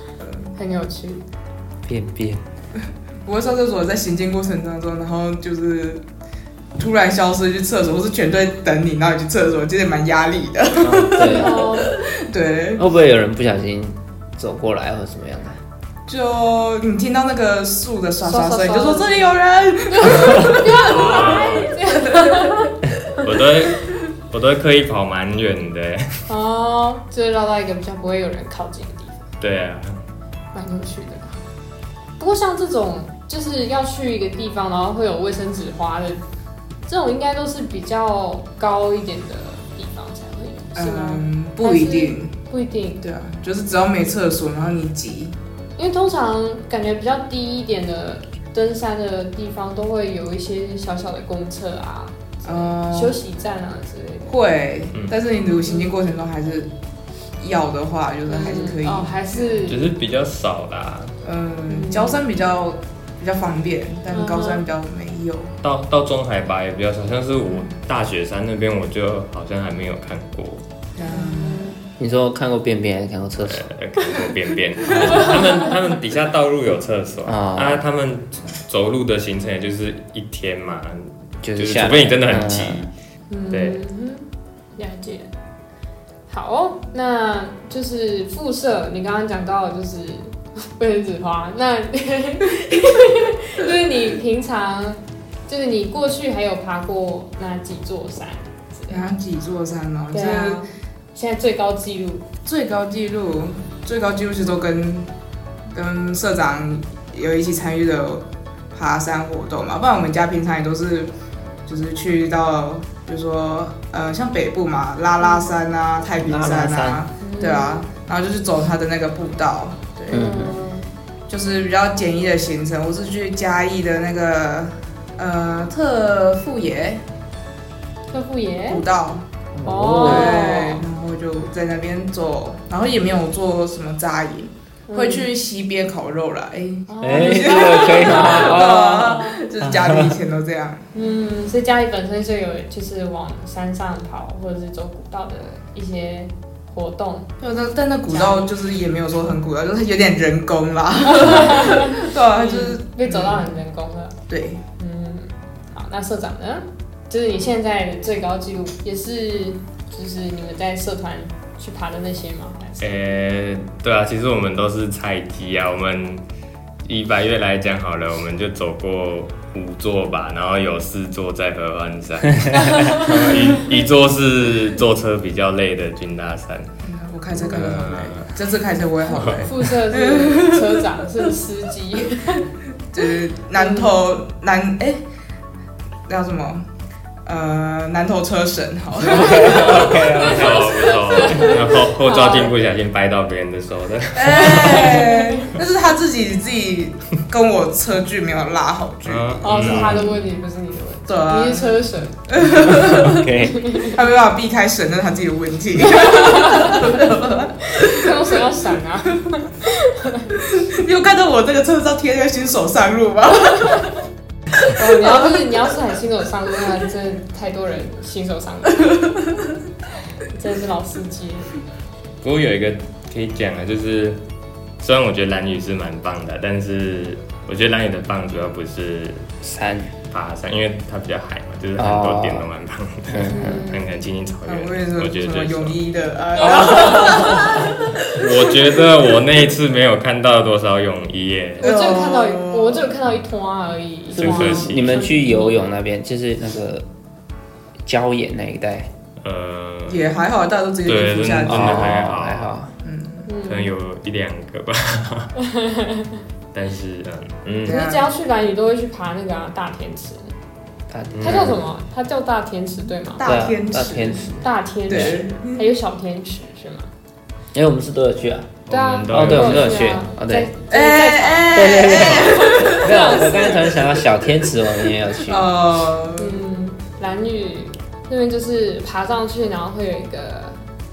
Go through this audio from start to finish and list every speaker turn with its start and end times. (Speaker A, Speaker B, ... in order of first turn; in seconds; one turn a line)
Speaker A: 0.5-1.2
Speaker B: 1.8-2.4
Speaker C: 3.2-6.0
Speaker C: 6.8-12.8
Speaker B: 10.8-11.7
Speaker A: 11.2-11.9
Speaker B: 12.8-15.6
Speaker C: 16.1-21.3
Speaker A: 18.2-19.2
Speaker A: 19.9-22.7
Speaker D: 20.8-21.8
Speaker C: 22.0-22.7
Speaker D: 23.2-26.2
Speaker A: 26.3-29.2
Speaker D: 29.4-30.0
Speaker A: 30.5-31.4
Speaker A: 32.2-36.2
Speaker A: 36.9-43.0
Speaker C: 40.7-42.3
Speaker C: 43.0-45.3
Speaker A: 45.8-54.3
Speaker C: 52.5-53.2
Speaker C: 54.3-56.7
Speaker A: 55.6-55.9
Speaker C: 57.4-59.6
Speaker A: 58.3-59.9
Speaker D: 59.7-61.2
Speaker C: 61.2-65.5
Speaker A: 61.7-62.2
Speaker A: 64.1-64.6
Speaker D: 65.6-70.6
Speaker C: 71.0-71.8
Speaker A: 71.1-71.8
Speaker B: 72.0-73.7
Speaker D: 73.4-82.9
Speaker A: 75.0-75.3
Speaker B: 77.2-77.8
Speaker B: 81.4-82.9
Speaker A: 83.3-85.3
Speaker D: 83.5-83.8
Speaker A: 86.3-99.0
Speaker C: 98.9-100.6
Speaker A: 100.1-102.2
Speaker C: 102.4-105.1
Speaker C: 105.7-111.1
Speaker C: 111.7-120.5
Speaker B: 116.2-117.0
Speaker A: 117.2-117.8
Speaker A: 120.1-120.9
Speaker B: 120.1-120.5
Speaker C: 121.3-127.0
Speaker A: 128.1-128.8
Speaker C: 128.7-129.2
Speaker B: 129.5-130.5
Speaker A: 129.6-130.8
Speaker C: 130.0-140.9
Speaker A: 134.9-135.3
Speaker A: 136.9-139.4
Speaker B: 137.0-140.1
Speaker A: 140.9-147.3
Speaker C: 147.4-153.5
Speaker A: 148.1-148.5
Speaker A: 151.1-154.2
Speaker C: 154.3-154.6
Speaker A: 154.8-163.0
Speaker D: 162.8-166.2
Speaker D: 166.8-176.7
Speaker A: 172.5-173.2
Speaker C: 176.8-181.1
Speaker D: 177.4-178.3
Speaker D: 179.1-179.5
Speaker A: 179.4-182.4
Speaker C: 182.9-185.0
Speaker A: 183.5-183.9
Speaker C: 186.1-186.6
Speaker C: 187.2-190.1
Speaker B: 189.0-190.8
Speaker A: 189.2-192.6
Speaker D: 189.6-195.1
Speaker C: 194.1-200.1
Speaker A: 194.5-195.5
Speaker D: 199.0-200.1
Speaker A: 199.4-202.2
Speaker C: 201.1-208.4
Speaker B: 202.4-203.6
Speaker A: 203.5-204.0
Speaker A: 205.9-207.0
Speaker A: 207.7-210.4
Speaker C: 210.4-213.9
Speaker C: 214.6-215.4
Speaker A: 214.7-219.1
Speaker A: 220.2-221.5
Speaker D: 222.2-224.2
Speaker D: 224.8-229.3
Speaker B: 229.4-229.9
Speaker D: 230.1-235.8
Speaker B: 231.8-232.5
Speaker B: 233.1-233.7
Speaker A: 233.3-233.8
Speaker C: 234.4-238.8
Speaker A: 236.4-237.5
Speaker B: 236.7-237.4
Speaker D: 238.0-241.7
Speaker A: 241.6-245.6
Speaker C: 241.6-242.9
Speaker B: 244.1-246.8
Speaker D: 244.2-245.1
Speaker B: 247.8-248.9
Speaker D: 249.2-250.1
Speaker C: 249.9-252.0
Speaker D: 250.8-252.6
Speaker B: 251.4-252.7
Speaker C: 252.8-253.3
Speaker A: 253.2-253.7
Speaker D: 253.4-255.3
Speaker A: 255.4-256.2
Speaker D: 256.5-257.8
Speaker C: 257.6-258.1
Speaker A: 257.7-260.3
Speaker B: 260.9-261.6
Speaker D: 261.1-261.6
Speaker A: 261.2-263.2
Speaker C: 263.1-264.3
Speaker B: 263.2-265.2
Speaker A: 264.4-266.9
Speaker C: 264.9-265.7
Speaker B: 267.5-268.6
Speaker D: 268.7-269.8
Speaker A: 268.7-273.8
Speaker B: 269.1-270.5
Speaker C: 270.7-274.0
Speaker B: 271.5-275.5
Speaker C: 275.2-276.4
Speaker A: 276.2-280.6